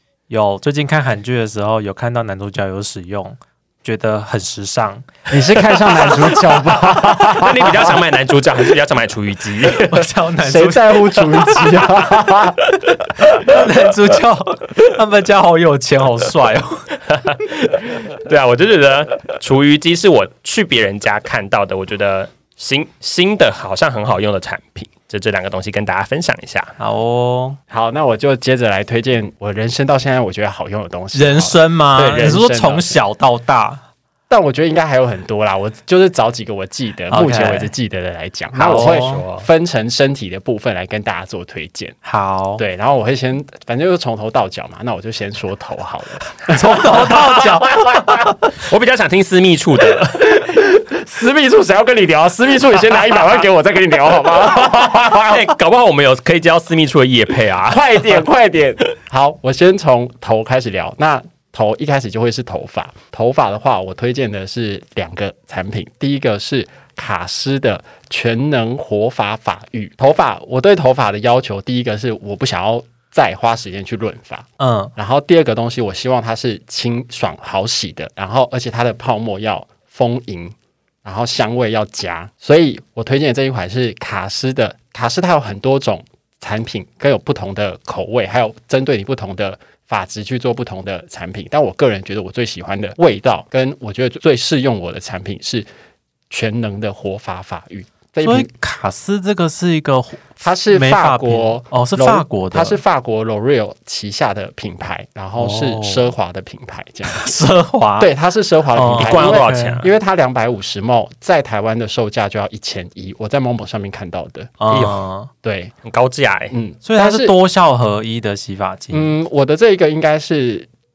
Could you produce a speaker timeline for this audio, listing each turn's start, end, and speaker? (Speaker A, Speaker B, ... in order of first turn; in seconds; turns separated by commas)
Speaker A: 0.3-7.0, Speaker B: 5.3-8.0, Speaker C: 7.2-10.1, Speaker A: 9.8-12.1, Speaker B: 10.4-12.7, Speaker A: 13.2-16.9, Speaker C: 17.1-26.7, Speaker A: 26.8-27.6, Speaker B: 27.7-33.0, Speaker A: 31.1-33.8, Speaker B: 34.3-42.0, Speaker A: 37.1-37.7, Speaker C: 38.6-39.5, Speaker A: 38.6-39.2, Speaker A: 42.0-42.6, Speaker B: 42.6-48.4, Speaker A: 46.5-48.3, Speaker C: 48.5-50.3, Speaker B: 50.2-55.5, Speaker C: 55.2-58.2, Speaker B: 57.7-95.7, Speaker A: 74.6-74.9, Speaker B: 96.3-98.5, Speaker A: 98.2-102.8, Speaker B: 100.4-107.3, Speaker A: 105.4-106.1, Speaker A: 107.1-108.1, Speaker B: 108.0-114.5, Speaker A: 108.7-109.9, Speaker C: 109.0-109.9, Speaker A: 114.6-115.3, Speaker C: 114.7-115.0, Speaker B: 115.4-115.7, Speaker C: 115.8-116.5, Speaker B: 116.5-117.3, Speaker A: 116.8-119.1, Speaker B: 118.9-120.7